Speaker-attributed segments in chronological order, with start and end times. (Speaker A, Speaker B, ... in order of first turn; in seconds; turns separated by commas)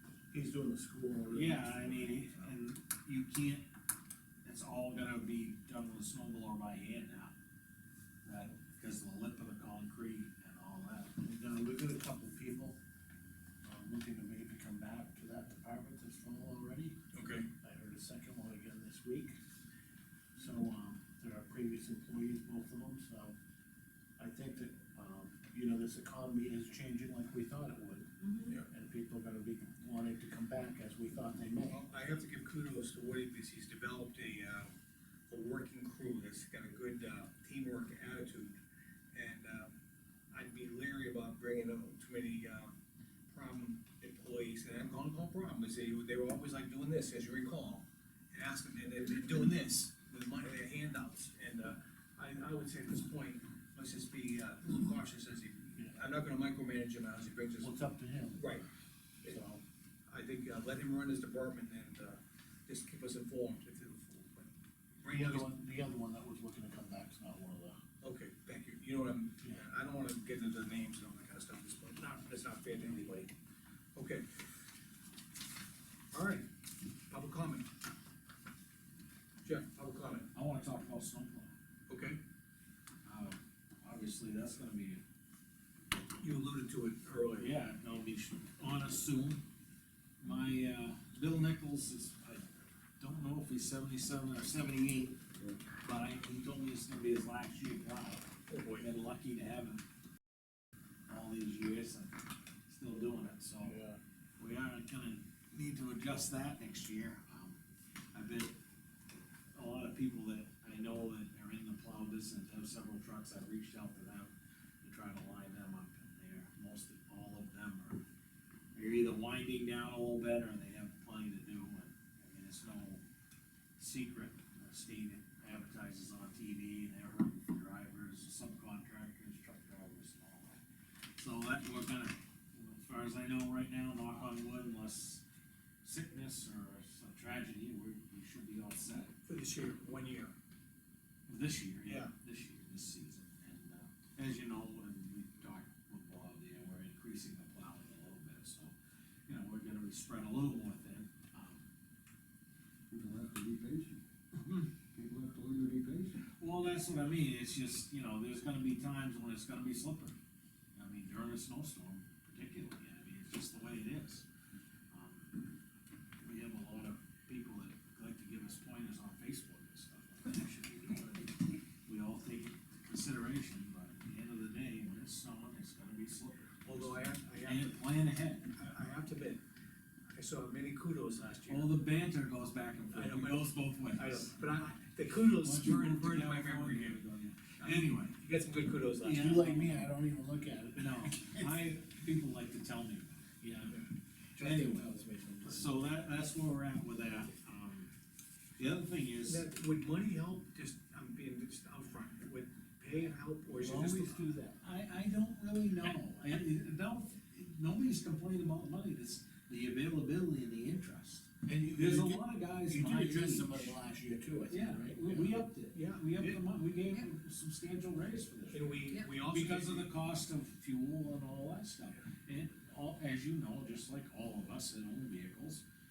Speaker A: 0.3-2.5, Speaker B: 1.3-3.7, Speaker B: 4.5-7.3, Speaker B: 8.2-11.2, Speaker A: 11.2-12.8, Speaker A: 13.7-17.0, Speaker C: 17.1-17.5, Speaker A: 17.6-19.3, Speaker A: 20.4-23.3, Speaker A: 24.2-31.8, Speaker C: 31.7-34.7, Speaker C: 35.3-38.5, Speaker C: 39.1-39.7, Speaker C: 40.3-42.7, Speaker C: 43.3-57.7, Speaker A: 57.6-58.6, Speaker C: 58.4-58.7, Speaker A: 59.2-59.6, Speaker C: 60.1-64.5, Speaker C: 65.0-65.5, Speaker A: 65.1-67.8, Speaker C: 68.0-73.3, Speaker C: 74.0-74.5, Speaker C: 76.1-76.5, Speaker C: 77.1-77.7, Speaker C: 79.5-80.3, Speaker B: 80.3-81.5, Speaker C: 81.9-82.2, Speaker B: 83.0-85.0, Speaker C: 86.2-87.5, Speaker B: 87.4-89.4, Speaker B: 90.2-95.2, Speaker B: 95.8-99.8, Speaker C: 98.5-98.9, Speaker B: 101.1-102.2, Speaker B: 102.7-103.8, Speaker A: 103.6-104.0, Speaker B: 104.4-107.6, Speaker B: 108.1-108.6, Speaker B: 109.5-118.0, Speaker B: 118.7-123.0, Speaker B: 123.8-130.6, Speaker B: 131.2-135.2, Speaker B: 135.8-139.1, Speaker C: 139.3-140.3, Speaker B: 141.3-148.8, Speaker B: 149.3-151.7, Speaker D: 152.9-154.0, Speaker B: 154.4-154.7, Speaker D: 154.9-156.2, Speaker B: 156.2-160.2, Speaker B: 160.8-164.2, Speaker B: 164.9-165.4, Speaker B: 166.2-178.5, Speaker C: 176.7-177.8, Speaker C: 178.5-179.4, Speaker C: 180.1-181.7, Speaker B: 181.5-184.4, Speaker C: 182.9-187.0, Speaker B: 185.2-188.2, Speaker C: 187.6-189.3, Speaker B: 189.0-189.9, Speaker A: 189.1-191.7, Speaker B: 190.8-193.3, Speaker A: 193.4-193.8, Speaker C: 193.7-195.6, Speaker B: 194.4-194.9, Speaker B: 195.4-197.9, Speaker B: 198.6-199.4, Speaker C: 199.2-204.3, Speaker A: 203.5-204.6, Speaker B: 204.6-213.7, Speaker A: 211.5-215.4, Speaker B: 214.5-225.6, Speaker C: 215.7-216.4, Speaker C: 218.5-219.9